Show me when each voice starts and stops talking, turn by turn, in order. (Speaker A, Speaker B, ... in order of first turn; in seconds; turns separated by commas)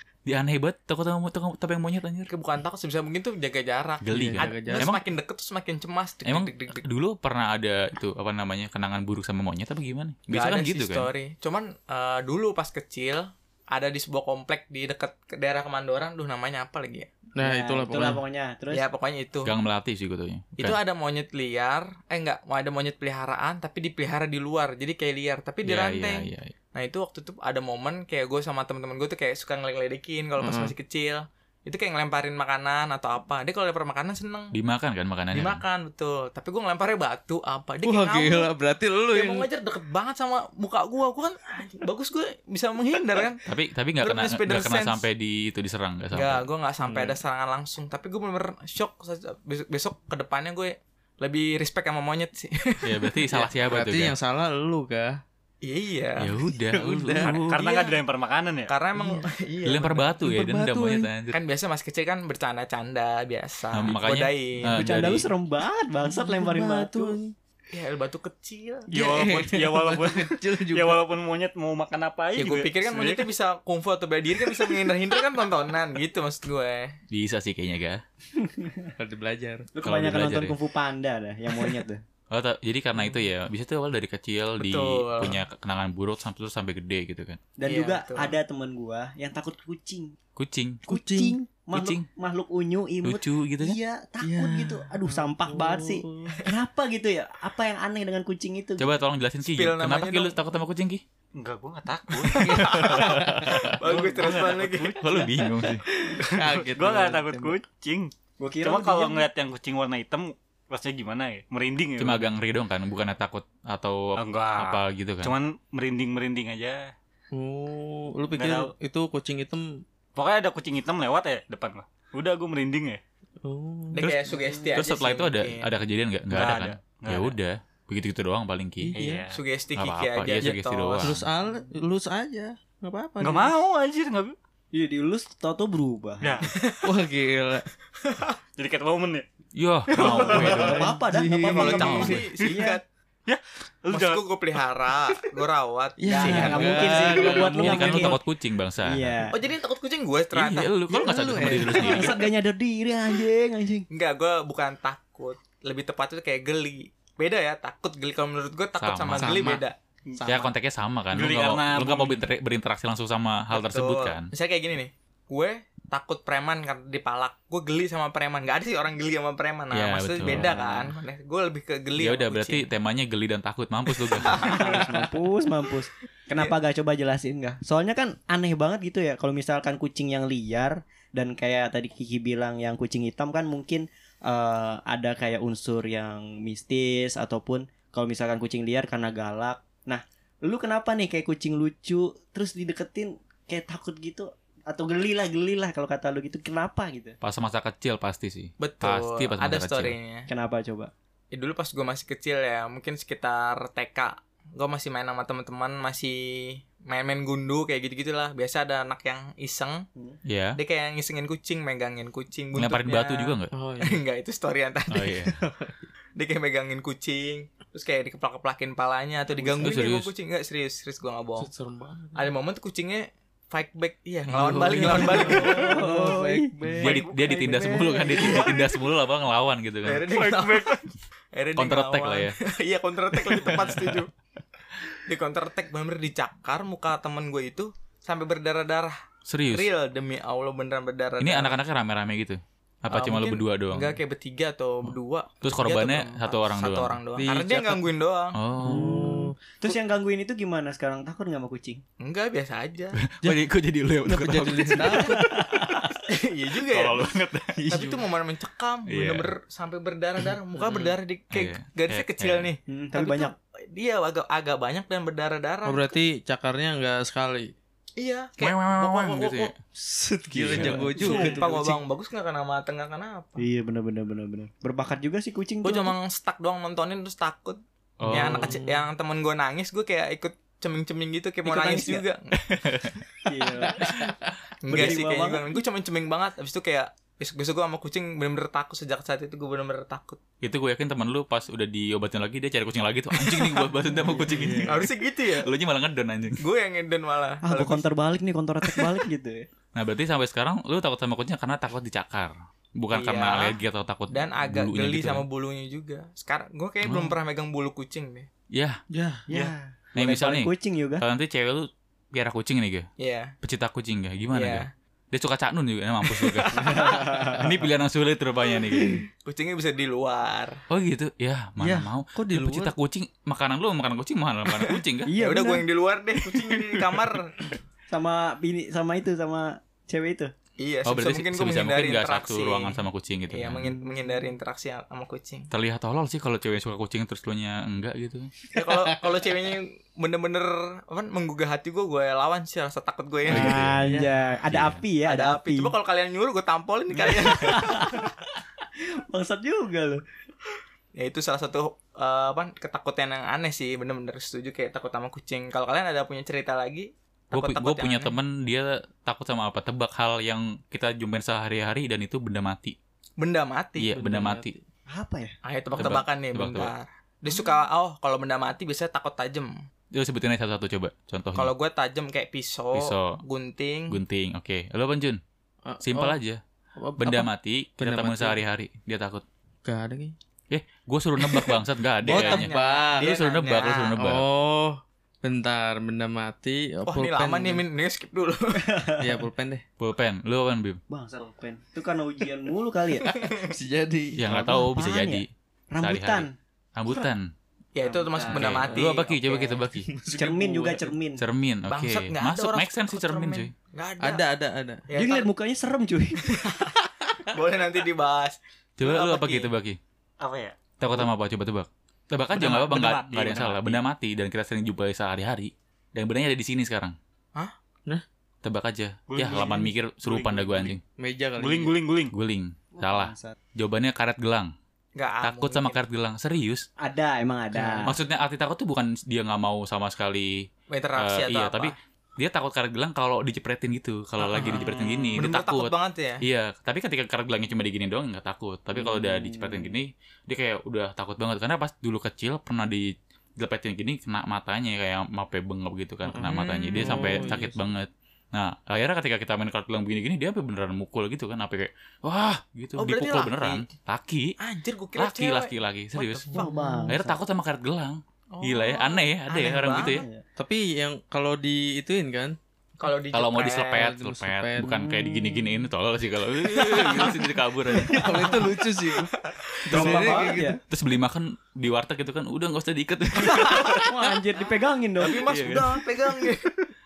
Speaker A: 0.2-2.3, Speaker B: 2.3-6.8, Speaker A: 4.0-5.0, Speaker C: 4.1-4.9, Speaker A: 6.2-11.1, Speaker B: 10.3-17.1, Speaker C: 17.4-18.2, Speaker D: 17.4-18.8, Speaker B: 18.7-19.5, Speaker A: 19.4-20.8, Speaker B: 20.6-34.5, Speaker A: 25.6-26.5, Speaker C: 30.4-30.7, Speaker A: 34.5-35.6, Speaker B: 35.3-38.5, Speaker C: 37.8-39.5, Speaker B: 39.1-43.4, Speaker A: 43.4-46.4, Speaker B: 44.0-45.0, Speaker B: 46.1-53.2, Speaker C: 46.8-47.2, Speaker A: 52.8-54.1, Speaker C: 53.3-55.2, Speaker B: 55.6-56.4, Speaker A: 56.2-57.6, Speaker C: 56.7-57.4, Speaker E: 57.2-58.7, Speaker B: 57.5-58.0, Speaker B: 58.7-60.1, Speaker C: 58.9-59.2, Speaker A: 59.6-61.4, Speaker C: 60.2-61.1, Speaker B: 61.3-64.8, Speaker A: 63.7-65.3, Speaker D: 64.7-67.2, Speaker C: 66.0-67.3, Speaker B: 67.7-69.3, Speaker E: 68.9-73.2, Speaker C: 68.9-71.0, Speaker B: 72.3-76.9, Speaker A: 77.1-78.0, Speaker D: 78.3-78.9, Speaker C: 79.0-79.7, Speaker D: 79.7-82.0, Speaker A: 79.8-80.5, Speaker A: 82.3-87.4, Speaker B: 84.6-85.4, Speaker D: 87.6-90.2, Speaker B: 87.7-88.3, Speaker A: 90.3-90.8, Speaker C: 90.9-91.3, Speaker D: 90.9-98.9, Speaker A: 91.7-92.0, Speaker A: 93.0-93.8, Speaker C: 94.2-96.4, Speaker A: 98.8-101.0, Speaker B: 99.4-100.4, Speaker E: 101.3-105.2, Speaker B: 102.2-105.2, Speaker C: 102.4-103.7, Speaker A: 102.5-103.8, Speaker A: 104.9-105.8, Speaker C: 105.9-107.5, Speaker E: 106.1-112.3, Speaker D: 108.4-109.3, Speaker A: 112.0-115.3, Speaker E: 114.2-116.9, Speaker C: 117.3-119.8, Speaker E: 118.3-118.7, Speaker E: 120.1-123.0, Speaker C: 123.4-124.1, Speaker B: 123.9-125.7, Speaker A: 124.0-129.0, Speaker E: 126.3-127.4, Speaker C: 128.8-129.2, Speaker E: 128.9-129.4, Speaker B: 129.3-131.1, Speaker A: 129.7-131.3, Speaker C: 130.4-133.5, Speaker E: 133.2-134.3, Speaker D: 134.7-136.5, Speaker E: 136.2-136.5, Speaker B: 136.5-136.9, Speaker C: 136.8-137.7, Speaker B: 138.0-138.3, Speaker E: 138.6-139.2, Speaker A: 139.5-140.9, Speaker E: 139.9-140.4, Speaker B: 140.0-140.4, Speaker D: 140.0-142.8, Speaker C: 140.0-142.3, Speaker B: 141.4-142.8, Speaker A: 141.7-142.2, Speaker E: 143.2-144.2, Speaker B: 143.9-147.5, Speaker C: 146.0-148.2, Speaker D: 146.1-148.2, Speaker A: 147.2-149.2, Speaker D: 148.8-149.3, Speaker B: 149.3-150.7, Speaker A: 150.3-152.2, Speaker C: 150.9-152.2, Speaker D: 151.7-153.9, Speaker B: 153.9-159.7, Speaker A: 158.8-159.6, Speaker C: 159.2-159.6, Speaker C: 160.2-160.5, Speaker A: 160.2-164.3, Speaker E: 161.1-162.2, Speaker B: 163.5-172.7, Speaker A: 169.7-170.9, Speaker A: 171.9-174.8, Speaker B: 174.2-174.8, Speaker D: 174.3-197.2, Speaker A: 197.2-199.9, Speaker B: 198.6-200.3, Speaker D: 200.3-200.9, Speaker B: 201.3-209.8, Speaker A: 210.2-210.6, Speaker B: 210.6-215.2, Speaker A: 212.5-213.5, Speaker C: 213.5-214.0, Speaker A: 214.9-215.4, Speaker C: 215.4-215.7, Speaker B: 216.2-221.5, Speaker C: 219.4-219.7, Speaker A: 219.6-220.1, Speaker C: 221.4-222.3, Speaker B: 222.1-225.9, Speaker A: 224.3-225.4, Speaker C: 224.3-228.6, Speaker D: 225.3-226.5, Speaker A: 226.8-230.1, Speaker D: 227.5-228.3, Speaker B: 228.1-228.5, Speaker B: 229.8-230.8, Speaker E: 230.1-230.9, Speaker B: 231.3-234.1, Speaker A: 231.6-232.4, Speaker A: 233.3-233.9, Speaker B: 235.0-239.0, Speaker A: 239.3-239.7, Speaker B: 239.5-241.6, Speaker A: 241.2-244.0, Speaker B: 242.9-248.4, Speaker A: 245.4-247.0, Speaker C: 247.2-247.9, Speaker A: 248.3-249.1, Speaker C: 248.6-249.3, Speaker D: 248.6-251.8, Speaker B: 252.0-253.0, Speaker A: 253.0-255.8, Speaker C: 253.2-253.5, Speaker C: 254.0-255.3, Speaker D: 254.9-255.9, Speaker B: 256.0-257.1, Speaker A: 256.6-257.9, Speaker C: 257.6-258.0, Speaker B: 257.7-265.9, Speaker A: 258.9-259.3, Speaker A: 261.3-262.5, Speaker D: 262.7-263.3, Speaker C: 265.6-267.5, Speaker B: 268.0-269.5, Speaker A: 268.4-269.6, Speaker C: 269.7-271.8, Speaker A: 270.3-270.9, Speaker D: 270.5-271.6, Speaker B: 270.6-273.4, Speaker D: 273.4-275.9, Speaker B: 275.6-282.6, Speaker A: 278.0-278.6, Speaker C: 278.1-278.9, Speaker D: 281.4-282.0, Speaker A: 282.5-283.0, Speaker D: 283.2-284.1, Speaker C: 283.6-284.3, Speaker B: 284.6-290.2, Speaker D: 284.7-285.5, Speaker A: 290.4-296.4, Speaker B: 293.2-293.6, Speaker C: 293.9-294.8, Speaker D: 294.0-294.6, Speaker B: 294.6-295.5, Speaker B: 296.4-297.9, Speaker D: 297.4-299.5, Speaker A: 299.7-305.2, Speaker B: 302.9-303.6, Speaker B: 304.1-308.3, Speaker A: 306.8-307.2, Speaker A: 308.5-308.8, Speaker C: 308.9-309.2, Speaker D: 309.3-311.0, Speaker A: 309.9-312.9, Speaker B: 313.0-313.3, Speaker A: 313.4-319.1, Speaker B: 314.3-314.7, Speaker B: 316.2-316.9, Speaker D: 316.6-317.5, Speaker B: 319.2-320.6, Speaker A: 320.7-325.1, Speaker C: 321.6-322.7, Speaker D: 325.1-325.6, Speaker B: 325.2-327.3, Speaker D: 327.9-330.3, Speaker B: 330.6-335.5, Speaker A: 330.8-333.8, Speaker A: 335.5-338.3, Speaker B: 338.5-343.6, Speaker A: 343.3-343.9, Speaker D: 343.3-345.7, Speaker C: 343.8-344.1, Speaker A: 344.4-344.8, Speaker B: 345.0-347.9, Speaker D: 347.0-348.3, Speaker D: 349.1-350.0, Speaker B: 351.0-358.1, Speaker A: 357.3-362.8, Speaker B: 363.2-363.9, Speaker A: 363.8-364.5, Speaker C: 363.9-364.6, Speaker D: 364.9-365.3, Speaker B: 365.4-369.6, Speaker A: 365.7-366.7, Speaker A: 369.9-371.5, Speaker B: 371.3-374.0, Speaker A: 372.7-373.2, Speaker A: 373.9-375.2, Speaker C: 375.6-376.2, Speaker A: 375.8-376.4, Speaker C: 376.8-378.4, Speaker A: 377.0-379.2, Speaker C: 379.6-380.1, Speaker A: 380.5-384.2, Speaker C: 381.2-381.5, Speaker C: 382.0-383.1, Speaker B: 382.0-383.9, Speaker C: 384.0-387.6, Speaker B: 386.8-388.7, Speaker D: 388.6-389.2, Speaker C: 389.0-389.6, Speaker A: 389.8-390.8, Speaker D: 390.9-393.1, Speaker B: 393.1-393.4, Speaker C: 393.4-394.8, Speaker A: 394.2-395.3, Speaker D: 394.3-396.3, Speaker A: 395.8-397.3, Speaker B: 397.7-399.4, Speaker D: 397.8-398.7, Speaker A: 398.3-399.9, Speaker C: 399.8-400.9, Speaker D: 400.1-401.2, Speaker A: 401.2-403.5, Speaker B: 401.7-404.2, Speaker C: 404.0-404.8, Speaker B: 404.9-405.3, Speaker D: 404.9-406.3, Speaker B: 406.3-406.7, Speaker B: 407.2-409.5, Speaker A: 408.8-409.8, Speaker E: 410.2-410.6, Speaker A: 410.8-416.9, Speaker E: 412.3-413.8, Speaker A: 418.4-420.8, Speaker E: 419.1-420.4, Speaker C: 420.2-421.7, Speaker E: 421.4-422.1, Speaker A: 422.1-424.5, Speaker D: 422.8-423.4, Speaker B: 424.9-425.8, Speaker A: 425.2-426.6, Speaker D: 426.8-427.9, Speaker C: 427.5-427.9, Speaker A: 427.8-454.3, Speaker B: 430.7-431.7, Speaker B: 434.4-434.6, Speaker E: 434.5-435.1, Speaker B: 435.1-436.2, Speaker D: 438.8-439.7, Speaker C: 446.1-447.6, Speaker B: 446.2-447.2, Speaker B: 452.8-453.6, Speaker B: 454.4-456.4, Speaker A: 454.9-460.0, Speaker D: 456.3-457.1, Speaker C: 456.4-457.0, Speaker B: 458.3-460.0, Speaker D: 459.7-460.2, Speaker C: 460.4-462.4, Speaker B: 462.8-463.9, Speaker A: 463.1-468.3, Speaker C: 463.7-464.8, Speaker D: 464.6-465.7, Speaker B: 466.7-467.0, Speaker C: 466.7-467.1, Speaker C: 467.7-469.1, Speaker B: 468.2-470.4, Speaker C: 469.7-470.6, Speaker D: 469.7-470.6, Speaker A: 470.7-473.9, Speaker D: 473.3-475.3, Speaker B: 473.3-473.8, Speaker B: 475.0-476.5, Speaker E: 475.3-475.6